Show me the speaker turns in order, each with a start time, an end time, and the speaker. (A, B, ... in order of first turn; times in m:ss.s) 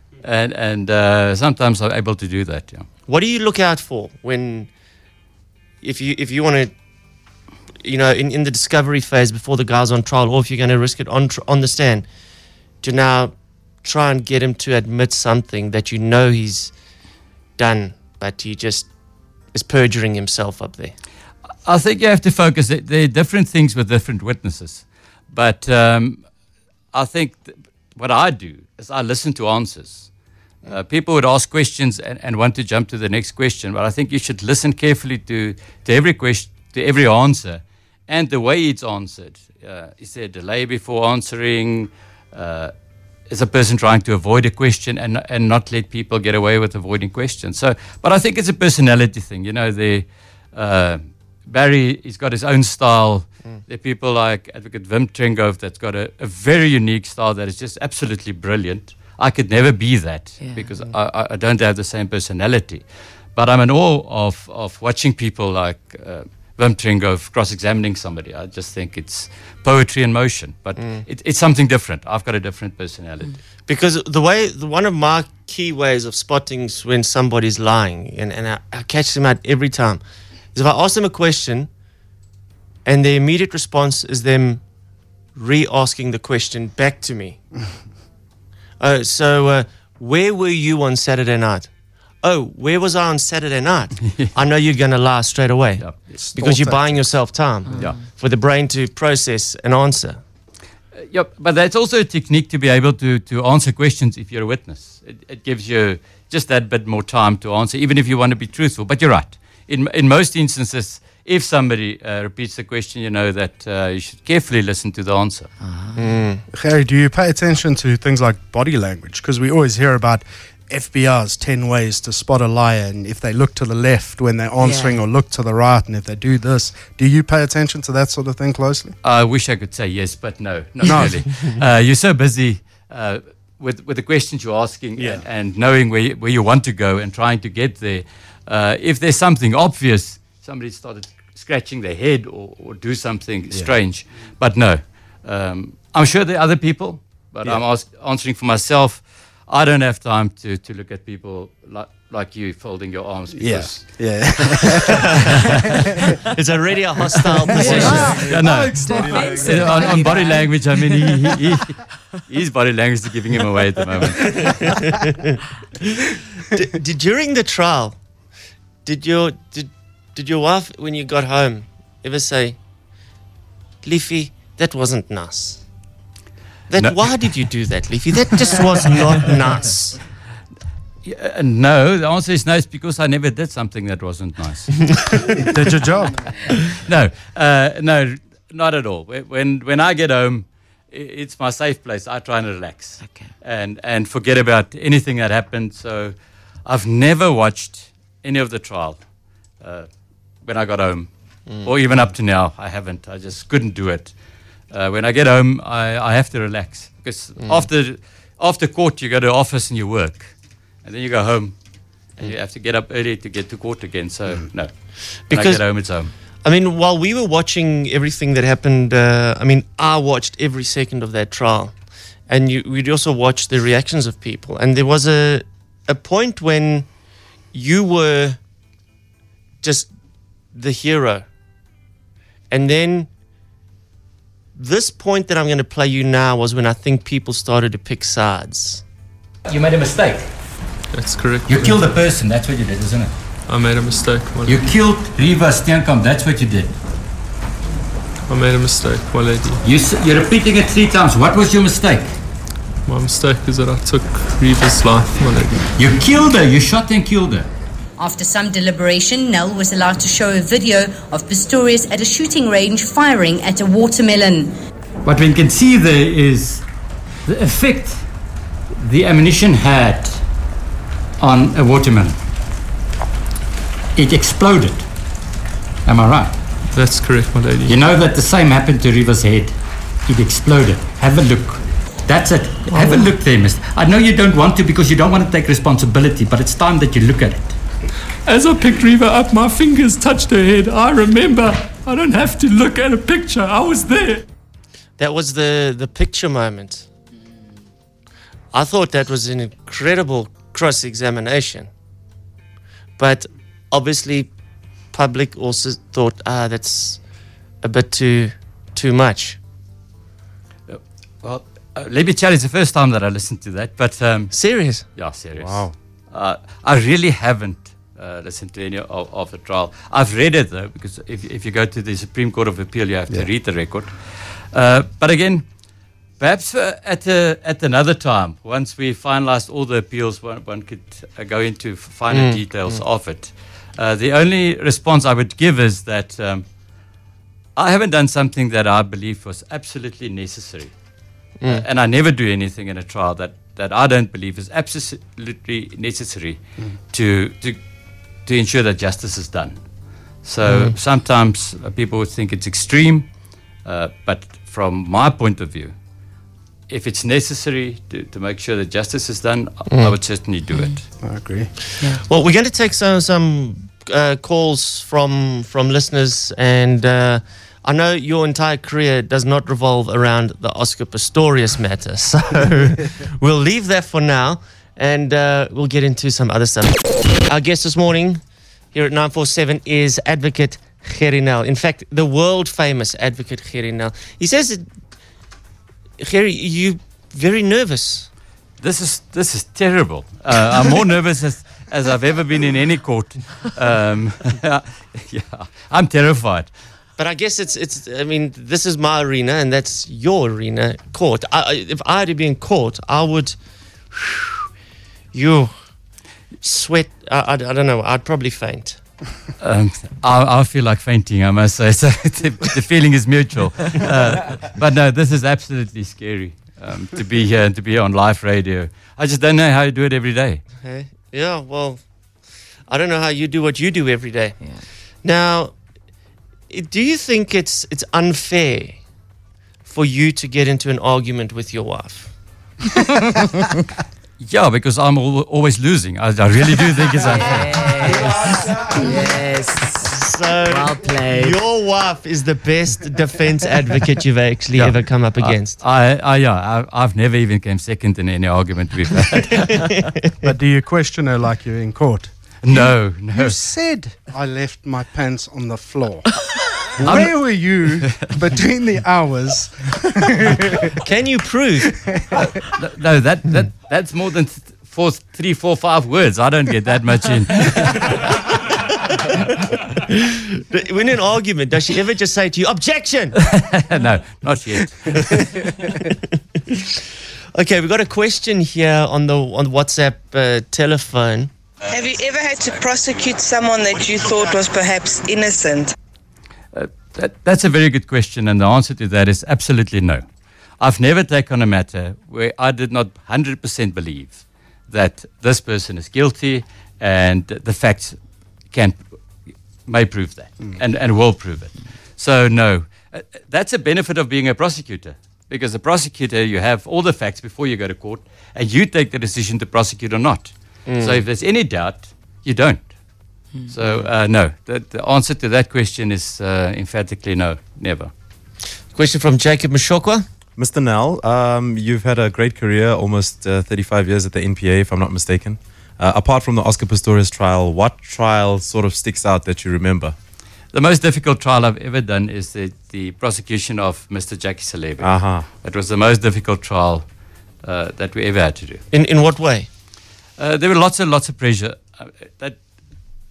0:00.2-0:02.9 A
0:03.0-0:04.7 B
0:05.8-0:06.7 B
0:07.8-0:12.1 B
0:12.8-0:16.7 B
0:17.6-0:18.9 B
0:19.5-0:20.9 B
0:21.6-0:26.3 A
0:26.9-0:30.1 A
0:30.6-0:42.7 A
0:43.2-1:13.3 A
1:00.4-1:00.7 C
1:10.8-1:11.0 B
1:13.6-1:20.0 B
1:20.5-1:21.7 B
1:22.8-1:24.6 B
1:25.3-1:27.4 B
1:28.8-1:40.2 B
1:34.0-1:34.3 A
1:35.8-1:36.2 A
1:36.0-1:37.1 D
1:37.6-1:38.0 C
1:37.8-1:38.0 A
1:41.1-1:55.5 A
1:55.6-1:56.0 C
1:56.0-1:56.4 B
1:56.5-2:09.0 D
2:04.6-2:05.0 C
2:09.0-2:34.2 A
2:10.9-2:11.2 D
2:23.5-2:24.2 D
2:33.3-2:35.1 D
2:36.3-2:38.2 B
2:37.4-2:40.4 D
2:37.6-2:40.7 C
2:37.6-2:44.4 A
2:44.4-2:45.0 B
2:46.5-2:48.0 B
2:48.8-2:52.6 B
2:53.8-2:55.6 B
2:56.7-3:00.0 B
2:56.8-2:57.2 A
3:01.0-3:04.7 A
3:05.4-3:06.4 D
3:06.8-3:19.0 A
3:13.0-3:13.3 C
3:19.6-3:19.9 A
3:20.4-3:24.1 A
3:21.4-3:22.1 B
3:24.7-3:31.6 A
3:27.4-3:27.7 B
3:32.2-3:36.1 A
3:35.1-3:46.9 B
3:47.5-3:48.4 B
3:49.6-3:49.9 B
3:50.5-3:51.3 B
3:52.5-3:53.1 B
3:54.5-3:58.8 B
3:59.5-4:00.3 E
4:00.9-4:01.8 F
4:01.4-4:03.1 E
4:03.5-4:04.8 F
4:04.4-4:06.7 E
4:08.3-4:09.6 F
4:09.6-4:12.1 E
4:12.8-4:15.6 F
4:15.8-4:17.5 E
4:18.0-4:24.5 G
4:25.0-4:26.6 E
4:27.2-4:28.0 E
4:28.8-4:30.2 E
4:31.2-4:32.2 E
4:34.0-4:34.8 E
4:35.8-4:36.3 E
4:36.7-4:37.8 F
4:37.6-4:47.6 E
4:42.6-4:43.1 F
4:48.2-4:54.2 F
4:55.0-4:56.9 B
4:58.5-5:01.7 B
5:03.0-5:04.3 B
5:04.9-5:07.0 B
5:07.6-5:09.4 B
5:10.7-5:14.3 A
5:14.3-5:14.9 B
5:14.9-5:25.4 A
5:15.4-5:15.7 H
5:26.2-5:36.4 A
5:32.1-5:32.8 B
5:37.6-5:40.7 A
5:41.4-5:41.6 B
5:41.5-5:47.6 A
5:48.1-5:49.6 A
5:50.2-5:53.1 A
5:50.4-5:50.7 B
5:53.6-5:55.7 A
5:56.7-6:00.8 A
5:59.7-5:59.9 B
6:01.0-6:01.5 D
6:01.8-6:24.7 B
6:26.0-6:28.1 B
6:28.6-6:36.5 A
6:37.0-6:43.4 B
6:43.9-6:44.3 B
6:45.1-6:45.5 B
6:46.4-6:48.8 B
6:49.4-7:00.4 A
7:00.6-7:01.9 B
7:02.7-7:04.4 B
7:05.0-7:05.5 B
7:06.5-7:08.8 B
7:09.6-7:12.1 B
7:14.2-7:18.4 A
7:17.0-7:21.4 C
7:19.9-7:25.6 B
7:24.5-7:29.5 A
7:29.3-7:30.1 B
7:30.2-7:36.1 D
7:32.4-7:33.5 A
7:36.8-7:40.6 D
7:36.8-7:38.1 A
7:40.8-7:41.7 B
7:41.7-7:42.3 D
7:42.6-7:47.7 A
7:50.5-7:53.1 B
7:53.2-7:54.7 A
7:57.3-8:01.3 B
8:01.7-8:05.7 I
8:06.5-8:10.0 A
8:10.6-8:18.0 A
8:18.5-8:18.9 A
8:19.6-8:32.8 A
8:30.6-8:31.0 B
8:33.5-8:37.9 A
8:38.7-8:40.0 B
8:40.4-8:49.9 H
8:50.5-8:58.6 A
8:54.8-8:55.3 H
8:58.7-8:59.5 B
9:00.2-9:02.4 A